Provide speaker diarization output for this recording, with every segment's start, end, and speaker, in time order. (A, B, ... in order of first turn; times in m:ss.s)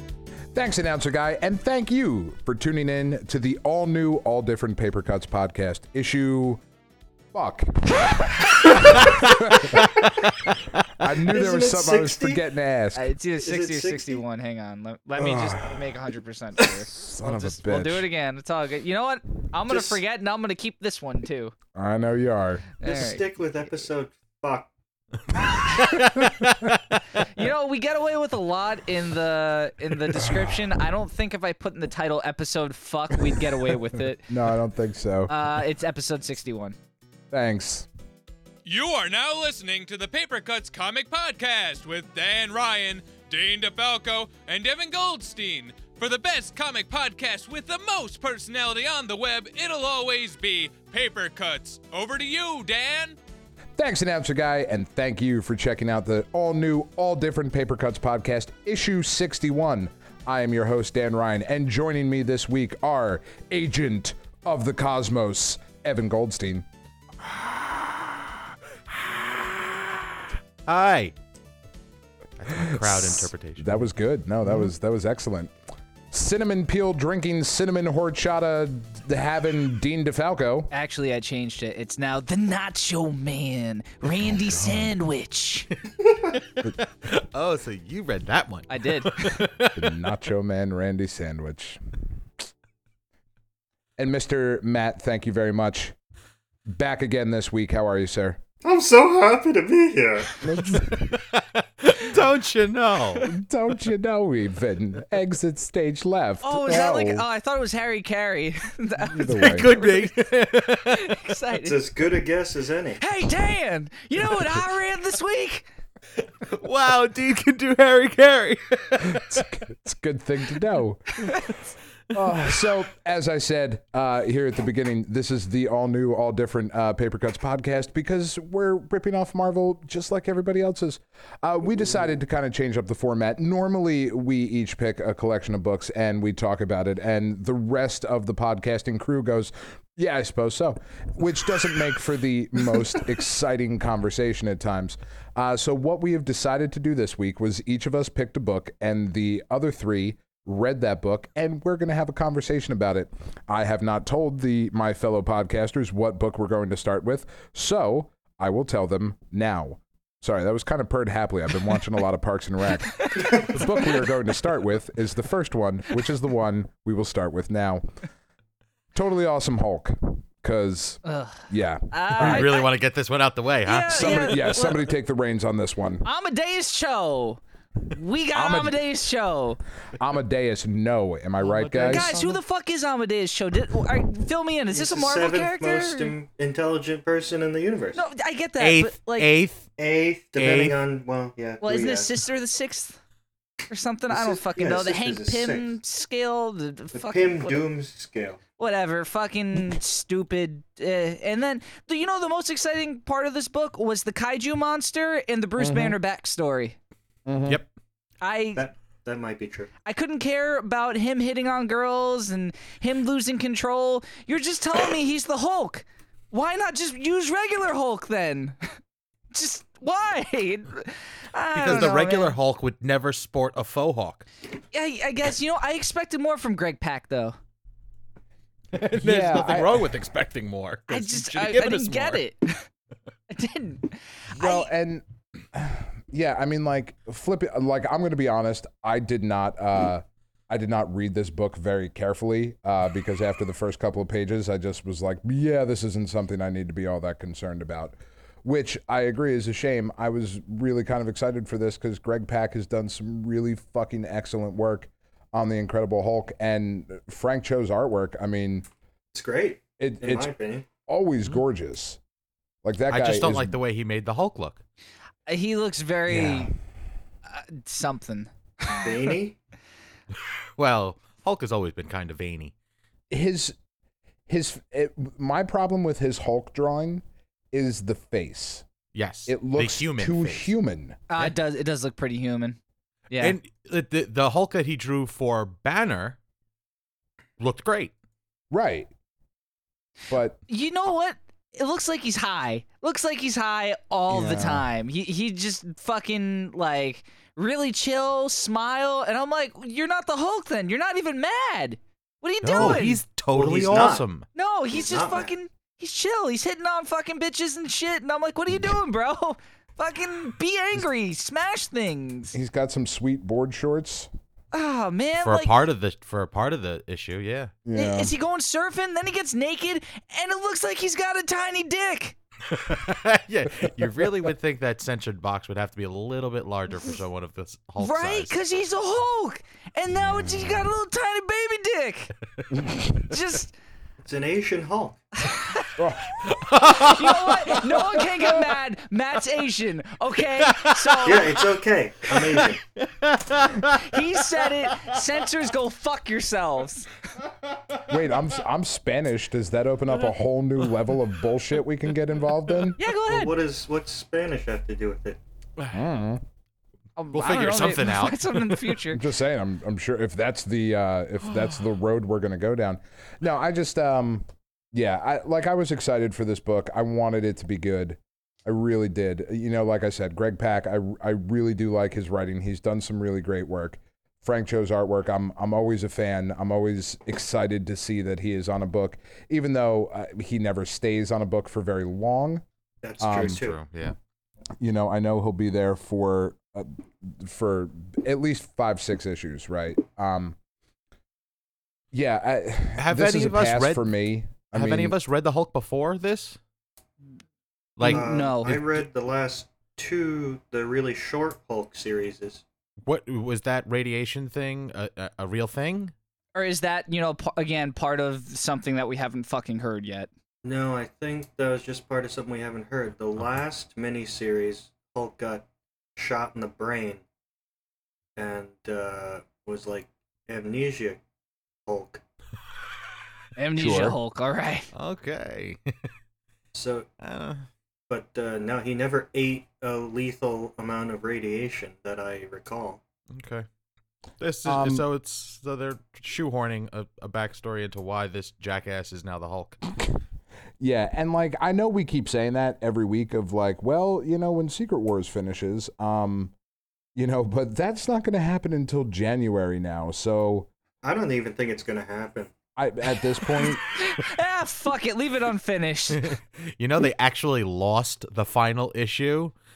0:00.5-0:06.6 A
0:07.3-0:10.0 A
0:09.1-0:10.5 B
0:11.0-0:13.1 A
0:11.2-0:12.4 C
0:12.9-0:21.5 D
0:13.4-0:14.2 C
0:15.2-0:15.8 A
0:16.9-0:18.1 A
0:19.7-0:20.0 C
0:21.7-0:22.7 A
0:22.8-0:23.2 D
0:22.8-0:24.7 C
0:25.6-0:26.2 D
0:25.8-0:26.7 B
0:27.1-0:34.3 D
0:34.3-0:35.3 A
0:35.3-0:36.8 D
0:37.3-0:37.9 A
0:38.6-0:53.2 E
0:53.8-1:06.7 A
1:07.2-1:10.0 A
1:10.6-1:11.1 B
1:12.4-1:13.8 B
1:12.5-1:15.5 A
1:16.1-1:20.7 A
1:20.7-1:25.7 D
1:24.2-1:24.9 A
1:26.4-1:29.9 B
1:28.7-1:29.4 D
1:29.7-1:31.8 A
1:34.0-1:35.9 A
1:36.7-1:38.4 A
1:38.6-1:40.4 C
1:40.4-1:41.2 A
1:40.8-1:43.3 B
1:43.2-1:47.2 A
1:46.4-1:50.1 D
1:49.0-1:49.7 A
1:49.3-1:51.2 B
1:50.7-1:51.8 D
1:51.6-1:53.0 C
1:53.0-1:55.6 D
1:56.2-1:59.4 B
1:59.1-2:01.4 A
2:02.1-2:47.8 A
2:43.0-2:43.4 D
2:48.9-2:52.5 A
2:51.0-2:52.7 D
2:52.2-2:54.5 B
2:53.6-2:54.9 D
2:53.9-2:56.0 A
2:56.0-2:59.6 D
2:58.3-2:58.8 A
2:59.9-3:02.2 A
3:01.4-3:02.4 B
3:01.8-3:06.1 D
3:04.7-3:08.0 C
3:07.9-3:09.3 D
3:08.6-3:09.7 B
3:09.8-3:12.1 C
3:10.4-3:10.8 B
3:11.6-3:13.0 D
3:13.7-3:17.6 D
3:14.1-3:15.7 C
3:16.9-3:18.4 C
3:18.6-3:26.8 D
3:25.6-3:26.0 A
3:27.2-3:27.6 A
3:28.2-3:28.6 D
3:28.6-3:29.7 C
3:29.8-3:38.6 D
3:39.3-3:42.4 D
3:41.5-3:44.2 B
3:44.7-3:47.4 D
3:48.7-3:52.2 B
3:48.8-3:49.9 A
3:50.9-3:52.7 D
3:53.3-3:54.7 D
3:54.3-4:18.6 A
4:19.1-4:20.7 C
4:19.8-4:20.3 A
4:20.9-4:22.0 A
4:22.6-4:23.6 A
4:22.9-4:24.6 B
4:25.3-4:26.5 D
4:26.1-4:26.5 A
4:27.3-4:29.1 D
4:28.8-4:29.4 C
4:30.6-4:32.5 B
4:33.1-4:33.5 A
4:34.3-4:38.6 A
4:38.9-4:40.5 B
4:39.3-4:41.0 A
4:41.1-4:42.6 D
4:43.1-4:43.4 D
4:43.2-4:46.2 B
4:47.4-4:47.9 B
4:48.5-4:48.9 A
4:50.1-4:50.4 A
4:50.5-5:03.0 D
4:54.1-4:54.7 A
5:02.4-5:04.2 B
5:03.3-5:04.0 C
5:04.3-5:12.3 D
5:04.7-5:05.3 C
5:12.3-5:14.1 A
5:14.5-5:15.5 D
5:15.2-5:17.5 B
5:17.6-5:18.1 A
5:17.7-5:22.2 D
5:22.5-5:28.3 B
5:27.8-5:32.1 D
5:32.6-5:33.0 A
5:33.0-5:33.5 D
5:34.0-5:35.0 C
5:35.2-5:35.8 D
5:35.8-5:36.6 A
5:36.2-5:37.7 B
5:36.5-5:41.4 D
5:40.5-5:41.4 B
5:41.0-5:42.6 C
5:42.1-5:45.0 B
5:43.7-5:46.9 D
5:47.8-5:52.8 A
5:52.8-5:53.4 D
5:52.9-5:55.2 C
5:55.7-5:56.2 A
5:57.0-5:59.0 D
5:57.1-5:58.7 B
5:58.9-6:22.4 A
6:22.8-6:23.6 C
6:23.0-6:23.4 A
6:23.1-6:24.0 B
6:24.6-6:30.4 A
6:31.9-6:35.0 A
6:32.8-6:33.9 B
6:34.5-6:36.4 B
6:37.8-6:38.8 B
6:37.8-6:38.6 D
6:37.8-6:42.4 C
6:42.8-6:45.9 B
6:46.3-6:50.1 D
6:50.4-6:57.0 C
6:58.2-7:01.0 C
7:01.6-7:02.0 C
7:03.4-7:04.7 D
7:03.6-7:04.0 A
7:04.7-7:05.9 B
7:06.5-7:06.9 C
7:07.0-7:07.4 B
7:07.9-7:12.8 C
7:13.1-7:13.4 B
7:14.2-7:19.6 B
7:14.4-7:14.8 A
7:20.6-7:26.3 A
7:26.9-7:30.5 A
7:30.8-7:32.3 C
7:32.6-7:33.6 A
7:33.3-7:36.1 D
7:35.9-7:39.3 B